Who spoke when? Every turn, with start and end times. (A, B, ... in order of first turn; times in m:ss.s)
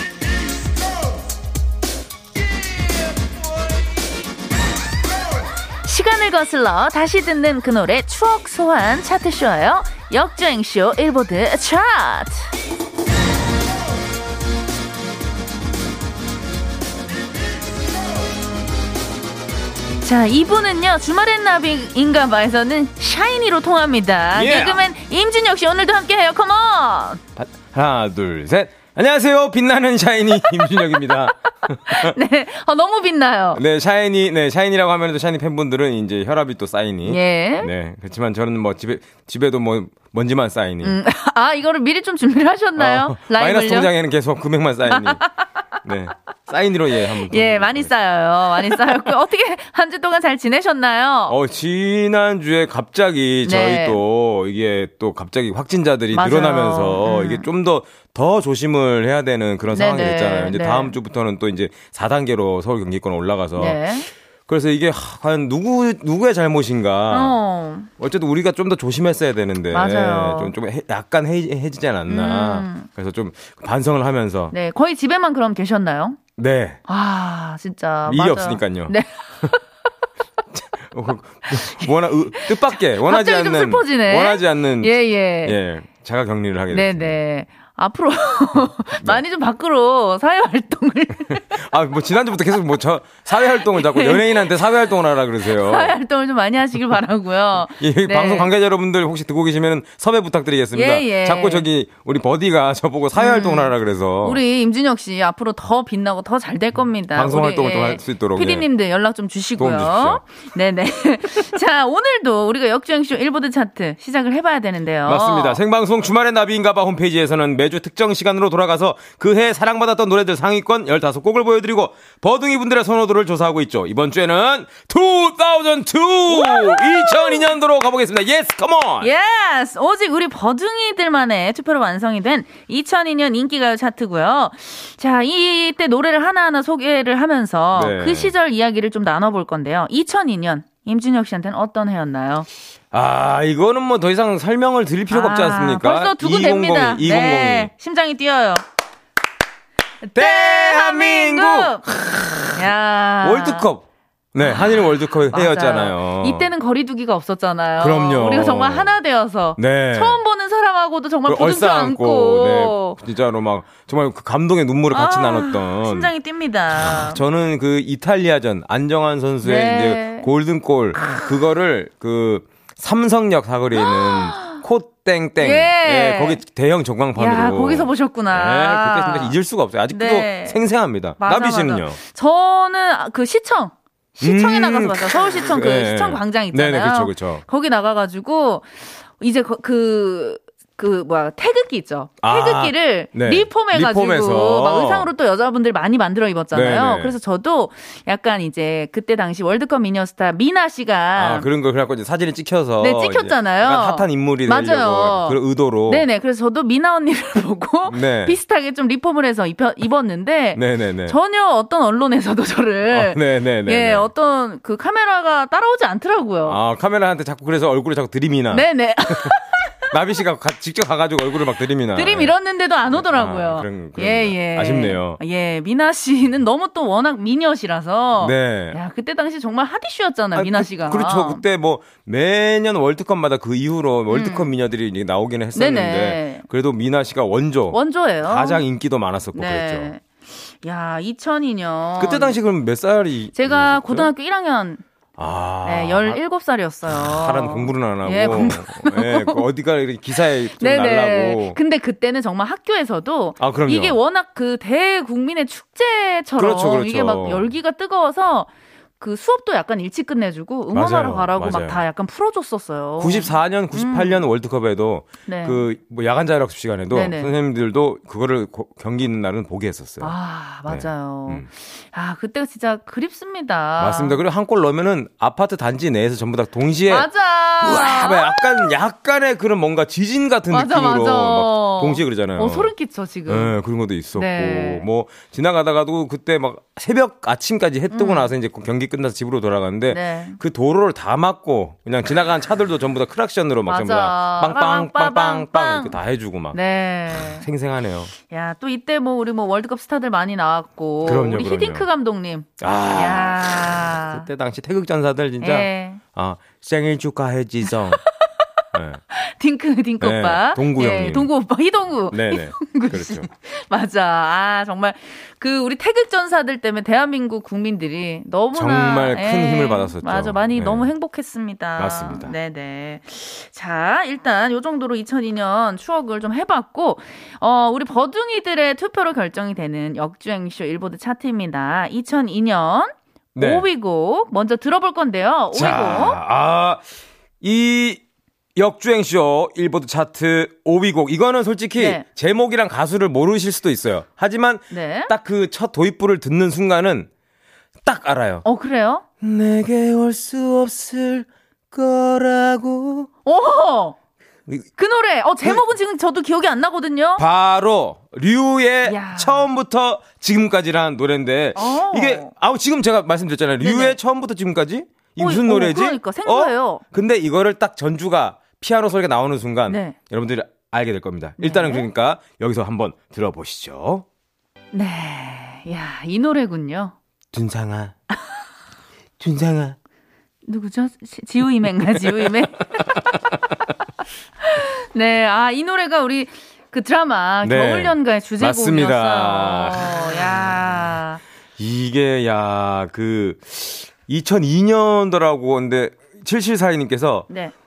0:05.8-0:12.5 A
0:20.0-0:27.2 A
0:24.3-0:24.9 B
0:27.4-0:32.2 B
0:31.7-0:33.6 A
0:33.5-0:41.0 B
0:37.0-0:37.7 A
0:40.8-0:43.9 A
0:42.8-0:45.2 B
0:44.9-0:45.4 A
0:45.8-0:47.9 B
0:47.1-0:51.4 A
0:51.3-1:03.9 B
0:53.4-0:54.0 A
0:56.1-0:57.5 A
0:59.7-1:01.0 A
1:03.6-1:04.1 A
1:04.5-1:07.4 B
1:07.1-1:07.9 A
1:08.0-1:14.5 B
1:09.7-1:10.5 A
1:12.1-1:12.9 A
1:14.5-1:16.2 A
1:16.4-1:16.8 B
1:16.9-1:19.6 A
1:18.0-1:18.9 B
1:20.5-1:27.2 B
1:21.5-1:25.6 A
1:26.7-1:31.6 A
1:31.3-1:35.9 B
1:33.3-1:34.6 A
1:35.4-1:38.5 A
1:37.7-1:44.4 B
1:40.7-1:41.7 A
1:43.2-1:55.6 A
1:47.1-1:48.6 B
1:49.6-1:50.2 B
1:55.0-2:09.1 B
2:06.3-2:07.5 A
2:09.0-2:22.5 A
2:17.7-2:18.3 B
2:22.9-2:27.7 B
2:25.1-2:28.6 A
2:30.0-2:31.8 A
2:30.2-2:32.6 B
2:32.5-2:33.7 A
2:33.2-2:36.5 B
2:34.4-2:43.0 A
2:37.8-2:38.9 B
2:39.6-2:40.2 B
2:41.3-2:46.1 B
2:44.9-2:47.2 A
2:46.8-3:02.0 B
2:49.4-2:50.3 A
2:50.9-2:51.3 A
2:53.7-2:54.6 A
2:55.4-2:56.4 A
2:57.2-2:59.4 A
2:59.9-3:00.6 A
3:01.2-3:21.5 A
3:04.2-3:07.4 B
3:12.2-3:15.1 B
3:16.5-3:17.2 B
3:21.2-3:26.0 B
3:22.8-3:36.6 A
3:27.9-3:28.4 B
3:30.6-3:31.2 B
3:32.9-3:34.1 B
3:36.4-3:42.3 B
3:38.5-3:39.7 A
3:41.9-3:51.4 A
3:42.9-3:45.2 B
3:48.2-3:48.8 B
3:50.3-3:59.9 B
3:54.1-3:54.5 A
3:55.5-3:56.4 A
3:57.7-3:58.6 A
3:59.3-4:02.4 A
4:02.0-4:04.1 B
4:03.3-4:04.8 A
4:05.2-4:06.2 B
4:05.6-4:09.4 A
4:06.9-4:11.6 B
4:10.4-4:24.2 A
4:13.4-4:14.0 B
4:16.4-4:17.5 B
4:20.7-4:21.8 B
4:23.0-4:30.1 B
4:25.3-4:25.6 A
4:26.9-4:27.3 A
4:30.0-4:34.2 A
4:30.7-4:31.5 B
4:33.8-4:37.1 B
4:36.9-4:38.7 A
4:37.6-4:42.7 B
4:40.5-4:43.5 A
4:43.3-4:56.6 B
4:44.1-4:44.8 A
4:47.9-4:48.3 A
4:49.9-4:50.4 A
4:53.7-4:56.0 A
4:56.5-4:57.5 A
4:57.2-4:58.1 B
4:58.3-5:04.3 A
5:01.0-5:01.9 B
5:02.6-5:08.0 B
5:05.4-5:06.0 A
5:08.7-5:09.0 B
5:09.1-5:36.2 A
5:10.0-5:11.3 B
5:12.1-5:13.3 B
5:18.5-5:20.9 B
5:21.8-5:22.3 B
5:33.3-5:33.7 B
5:35.5-5:36.8 B
5:37.4-5:38.0 B
5:38.6-5:47.1 B
5:41.8-5:42.0 A
5:44.7-5:45.1 A
5:47.8-5:48.4 B
5:48.4-5:49.0 A
5:49.2-5:53.1 B
5:53.2-5:54.0 A
5:54.8-5:57.2 A
5:57.2-6:14.0 B
5:58.8-5:59.5 A
6:01.5-6:02.3 A
6:03.6-6:04.0 A
6:05.2-6:06.8 A
6:09.7-6:10.0 A
6:11.4-6:11.9 A
6:14.7-6:17.0 A
6:17.3-6:17.9 B
6:19.2-6:19.8 B
6:20.4-6:23.2 A
6:24.4-6:31.2 A
6:27.4-6:30.2 B
6:31.6-6:37.3 B
6:37.3-6:37.5 A